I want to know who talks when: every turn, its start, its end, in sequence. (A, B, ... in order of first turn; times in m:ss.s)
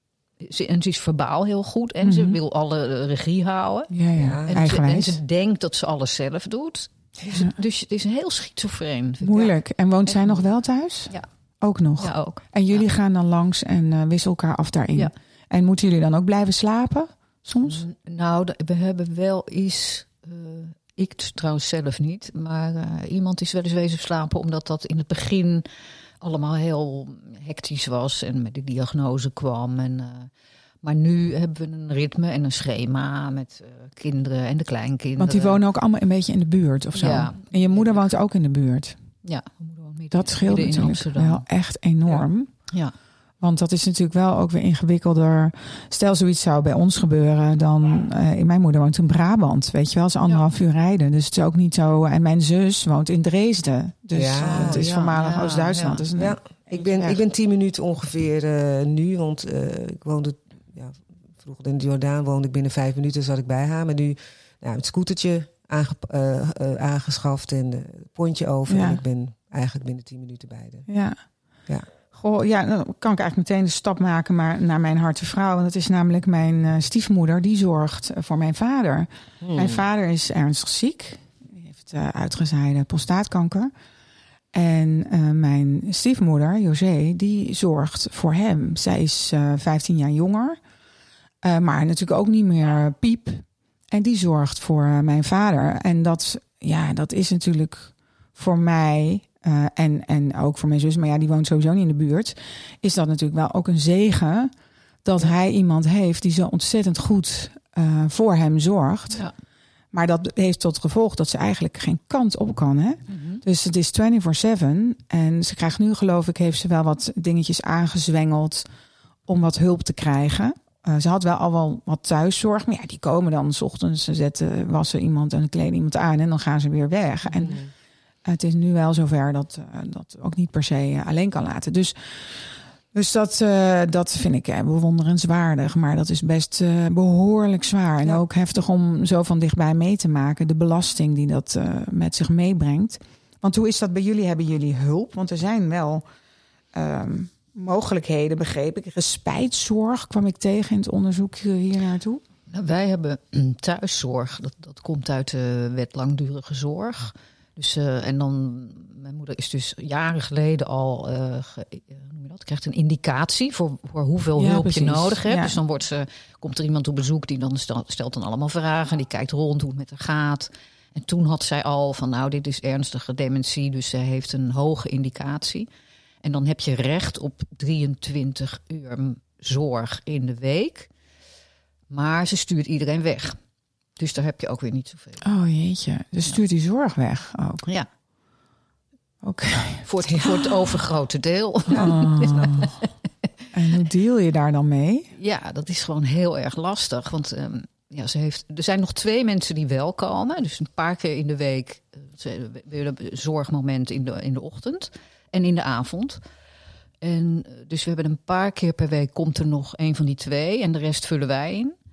0:00.4-0:03.9 A
0:02.0-0:02.4 B
0:03.9-0:05.2 B
0:04.2-0:04.6 C
0:04.5-0:09.6 A
0:09.2-0:17.8 B
0:10.1-0:10.5 A
0:12.0-0:12.4 A
0:17.7-0:25.7 A
0:26.2-0:30.3 A
0:30.8-0:35.6 A
0:35.2-0:39.0 B
0:37.0-0:37.9 A
0:39.2-0:41.4 A
0:40.1-0:42.5 B
0:42.1-0:42.9 A
0:43.4-0:57.2 B
0:54.2-0:54.9 C
0:54.5-0:56.0 A
0:56.2-1:10.9 C
1:08.7-1:09.0 B
1:10.9-1:11.2 B
1:12.1-1:23.7 B
1:19.4-1:19.8 C
1:24.5-1:30.6 B
1:31.4-1:44.5 B
1:45.0-1:49.2 B
1:49.9-1:58.7 B
1:53.1-1:53.4 A
1:59.3-2:07.6 B
2:07.4-2:07.7 C
2:08.2-2:26.0 B
2:26.7-2:32.2 B
2:32.5-2:55.7 A
2:44.4-2:45.6 B
2:56.2-3:00.9 A
3:01.9-3:03.4 A
3:04.0-3:05.2 A
3:05.2-3:07.7 B
3:09.2-3:10.3 B
3:09.9-3:12.9 A
3:11.7-3:12.6 C
3:11.7-3:12.8 B
3:13.5-3:15.1 B
3:15.2-3:26.2 A
3:27.0-3:31.7 A